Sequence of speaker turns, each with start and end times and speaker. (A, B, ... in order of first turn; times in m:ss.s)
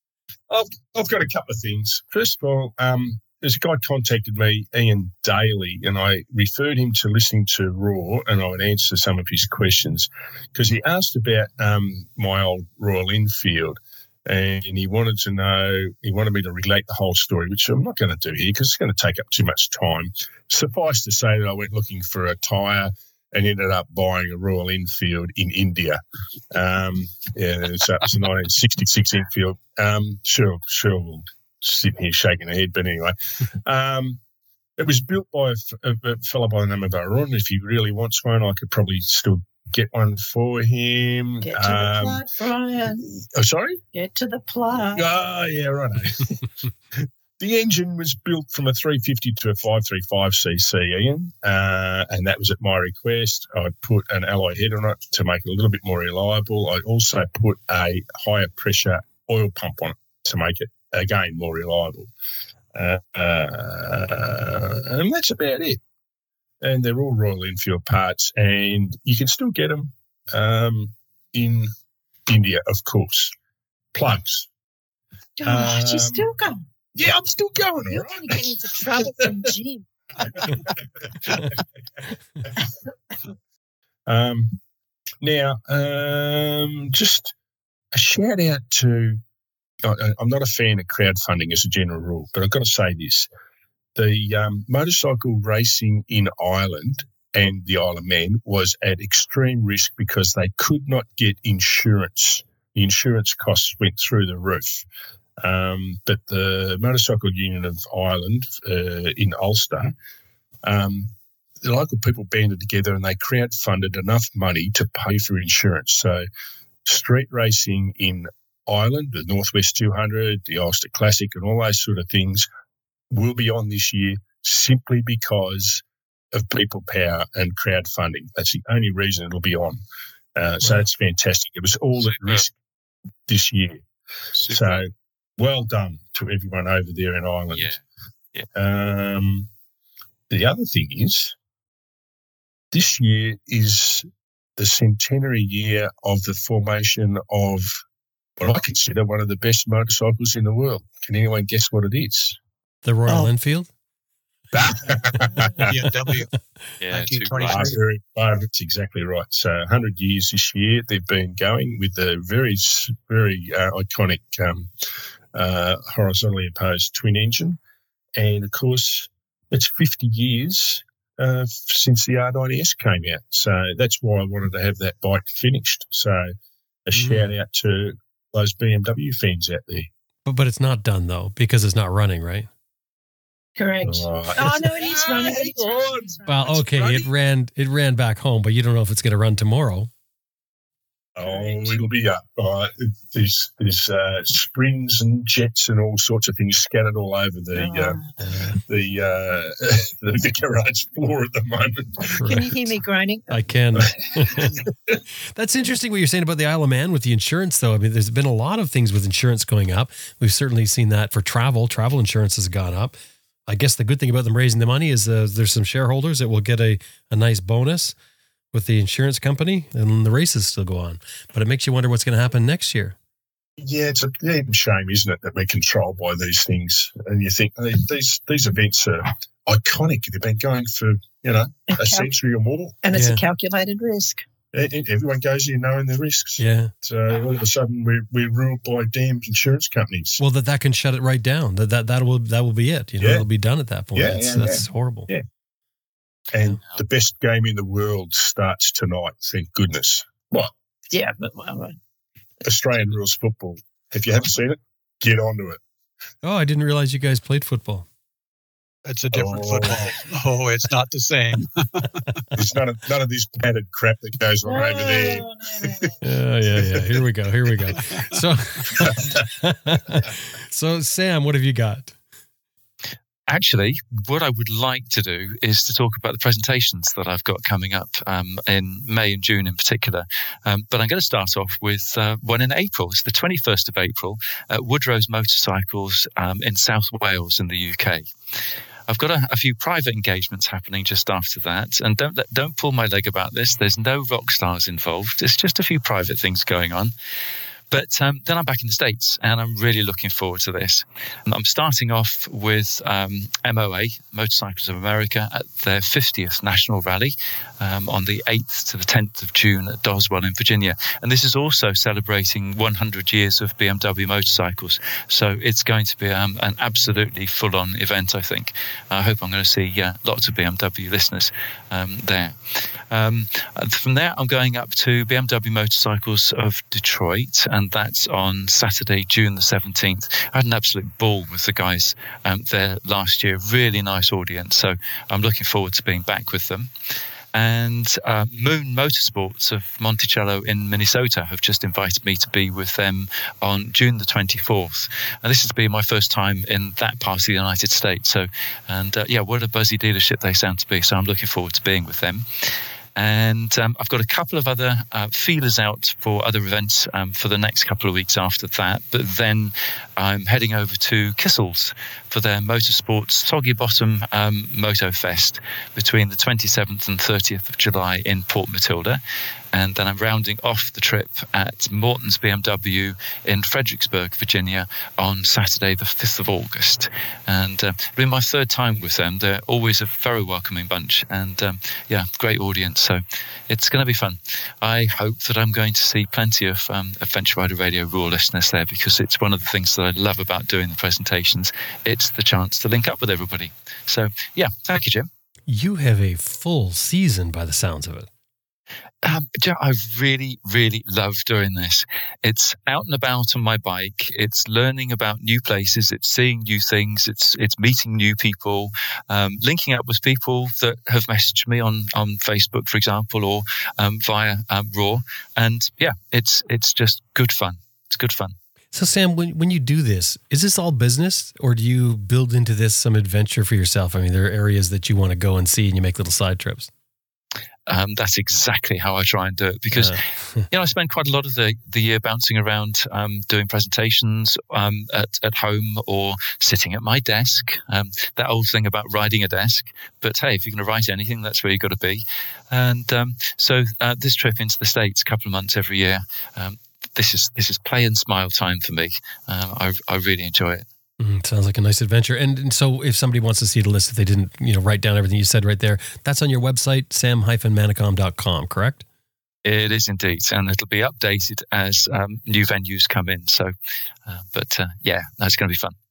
0:00.5-0:26.0 A
0:26.5-0:34.2 A
0:34.8-0:42.2 A
0:41.4-0:43.1 B
0:43.0-0:43.8 A
0:43.9-0:45.2 B
0:44.8-0:46.4 A
0:47.0-1:02.1 A
1:02.7-1:05.8 A
1:06.6-1:11.7 A
1:12.3-1:13.3 A
1:13.9-1:14.5 A
1:15.4-1:16.6 B
1:15.4-1:16.3 A
1:17.0-1:19.5 A
1:17.9-1:19.9 B
1:20.2-1:21.6 A
1:24.1-1:24.6 A
1:25.2-1:27.3 A
1:27.9-1:29.2 A
1:29.8-1:33.3 A
1:34.0-1:44.9 A
1:45.4-1:49.9 A
1:50.6-1:56.3 A
1:56.8-2:02.5 A
2:03.1-2:09.8 A
2:10.4-2:12.5 A
2:12.1-2:12.4 C
2:13.3-2:13.8 A
2:14.4-2:14.8 C
2:14.5-2:17.8 A
2:17.5-2:17.8 C
2:18.6-2:19.5 A
2:20.3-2:21.4 A
2:22.7-2:27.8 A
2:28.4-2:32.4 A
2:32.8-2:33.7 D
2:34.5-2:35.8 A
2:35.7-2:36.3 E
2:36.8-2:37.7 C
2:36.9-2:37.8 E
2:37.5-2:44.7 A
2:45.3-2:47.6 A
2:48.2-2:56.4 A
2:56.9-2:59.9 A
2:57.0-2:57.3 D
3:00.2-3:02.5 D
3:03.6-3:06.6 B
3:03.8-3:07.1 A
3:06.3-3:09.9 D
3:11.2-3:22.5 A
3:11.2-3:11.8 B
3:17.6-3:18.0 B
3:18.2-3:18.5 D
3:22.1-3:22.4 D
3:22.2-3:23.4 B
3:23.3-3:24.6 D
3:23.8-3:25.0 A
3:25.3-3:33.0 D
3:33.5-3:38.0 D
3:38.5-3:43.0 D
3:43.6-3:52.8 A
3:51.7-3:52.1 B
3:52.8-3:54.2 B
3:52.9-3:53.2 D
3:54.5-4:00.2 A
3:56.4-3:56.7 D
4:00.2-4:05.1 D
4:03.0-4:03.3 A
4:04.0-4:05.2 A
4:06.3-4:10.5 A
4:10.9-4:11.8 B
4:12.4-4:15.6 A
4:16.2-4:17.9 D
4:18.8-4:22.0 E
4:19.1-4:19.9 A
4:22.4-4:25.9 A
4:24.4-4:25.9 B
4:26.0-4:32.0 D
4:28.7-4:29.2 A
4:33.3-4:48.1 C
4:48.9-4:56.9 C
4:57.7-5:36.7 C
5:37.3-6:09.0 C
6:09.5-6:35.1 C
6:35.5-6:38.1 D
6:39.0-6:58.4 C
6:58.7-7:06.7 D
7:07.7-7:30.7 C
7:09.7-7:10.5 D
7:31.0-7:38.8 D
7:39.4-7:43.5 C
7:44.1-7:45.8 C